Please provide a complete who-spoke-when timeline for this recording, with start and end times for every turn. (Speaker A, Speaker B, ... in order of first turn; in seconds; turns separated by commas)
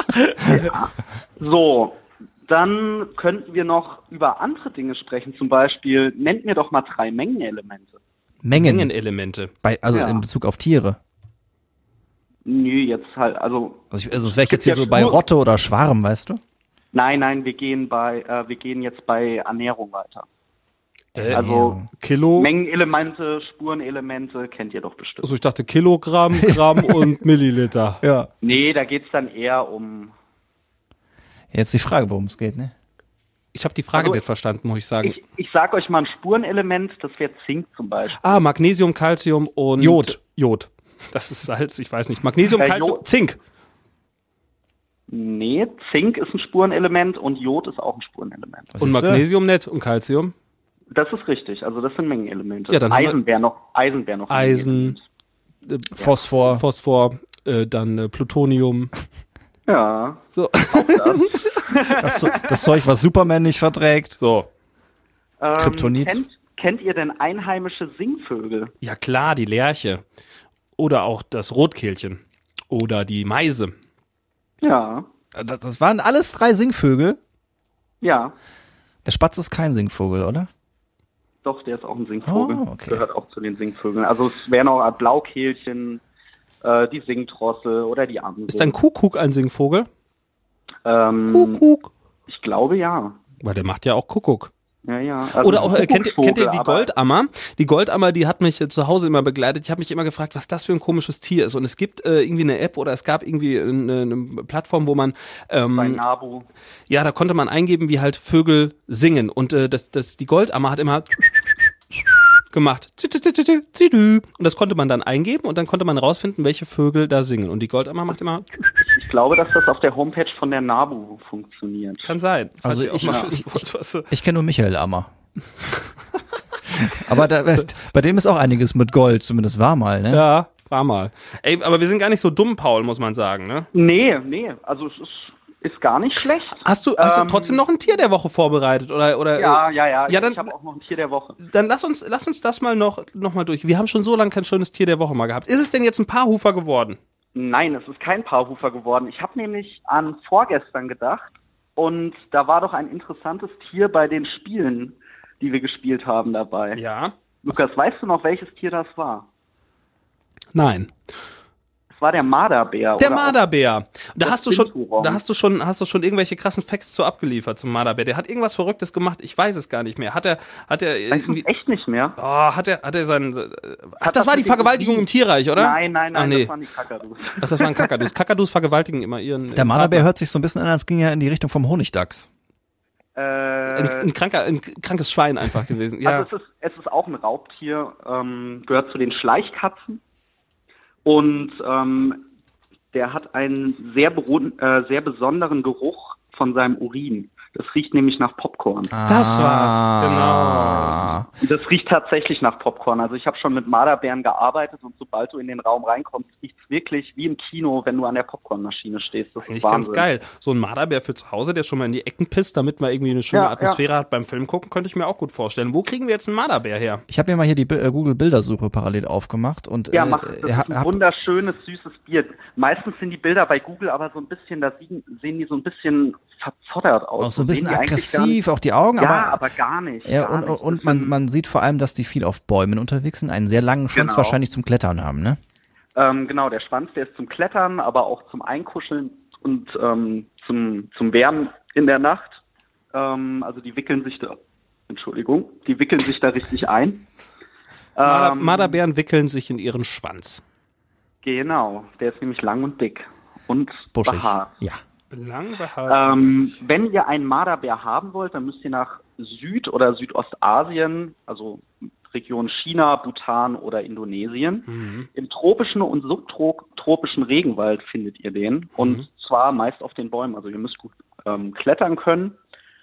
Speaker A: 0.4-8.0, Speaker B: 8.4-8.9, Speaker C: 8.5-9.5, Speaker B: 9.6-11.0, Speaker A: 9.9-10.2, Speaker A: 12.4-15.2, Speaker B: 13.9-16.4, Speaker A: 16.9-20.2, Speaker B: 21.1-21.9, Speaker C: 21.1-22.5, Speaker A: 21.3-21.8, Speaker A: 22.4-25.3, Speaker C: 25.2-28.0, Speaker B: 26.3-27.1, Speaker B: 28.0-28.3, Speaker A: 28.4-30.1, Speaker B: 31.5-32.7, Speaker C: 33.5-35.2, Speaker A: 34.0-34.2, Speaker A: 35.0-38.4, Speaker C: 38.2-43.4, Speaker B: 39.8-40.1, Speaker A: 42.6-43.0, Speaker A: 45.1-48.7, Speaker B: 48.7-49.2, Speaker C: 48.8-50.3, Speaker A: 50.9-55.0, Speaker C: 52.7-53.2, Speaker C: 54.3-54.9, Speaker C: 55.6-58.9, Speaker B: 56.0-56.6, Speaker A: 59.7-62.6, Speaker C: 60.3-61.4, Speaker B: 62.0-64.2, Speaker C: 64.2-64.5, Speaker A: 65.4-68.7, Speaker B: 65.6-66.2, Speaker C: 68.8-70.0, Speaker C: 70.8-73.7, Speaker A: 74.6-75.0, Speaker B: 75.3-77.2, Speaker A: 78.0-78.3, Speaker B: 79.0-80.5, Speaker A: 81.4-86.0, Speaker B: 82.2-83.0, Speaker A: 86.6-88.8, Speaker C: 88.5-89.9, Speaker A: 90.8-91.6, Speaker C: 91.3-91.9, Speaker A: 92.3-93.2, Speaker C: 93.4-94.5, Speaker A: 94.8-96.9, Speaker C: 95.4-106.0, Speaker A: 105.8-106.5, Speaker C: 106.9-111.5, Speaker C: 112.5-118.6, Speaker A: 118.8-122.1, Speaker C: 122.0-124.1, Speaker B: 122.6-125.1, Speaker B: 126.7-130.2, Speaker C: 130.1-133.7, Speaker A: 133.7-137.6, Speaker C: 136.6-140.5, Speaker A: 139.4-141.4, Speaker C: 141.4-147.0, Speaker A: 147.3-156.8, Speaker C: 156.7-157.1, Speaker A: 157.4-159.3, Speaker C: 160.5-160.9, Speaker A: 161.9-163.4, Speaker C: 163.0-171.4, Speaker A: 164.2-165.2, Speaker A: 171.1-172.2, Speaker C: 172.2-176.5, Speaker A: 174.0-177.9, Speaker C: 177.4-180.1, Speaker B: 179.5-182.3, Speaker A: 183.2-184.1, Speaker C: 183.7-186.3, Speaker A: 186.0-190.0, Speaker A: 191.0-192.2, Speaker A: 192.9-198.9, Speaker B: 198.9-201.3, Speaker C: 199.1-201.1, Speaker A: 201.4-210.0, Speaker C: 209.4-217.0, Speaker A: 213.3-213.8, Speaker B: 217.1-221.0, Speaker A: 219.9-228.4, Speaker B: 227.2-229.4, Speaker A: 229.0-231.2, Speaker B: 230.1-235.4, Speaker A: 233.9-234.4, Speaker A: 235.9-242.4, Speaker A: 242.9-247.1, Speaker A: 247.9-248.8, Speaker C: 248.0-250.4, Speaker A: 251.2-254.5, Speaker B: 253.9-254.8, Speaker C: 255.1-256.5, Speaker A: 255.9-272.4, Speaker C: 264.7-265.1, Speaker C: 268.8-269.0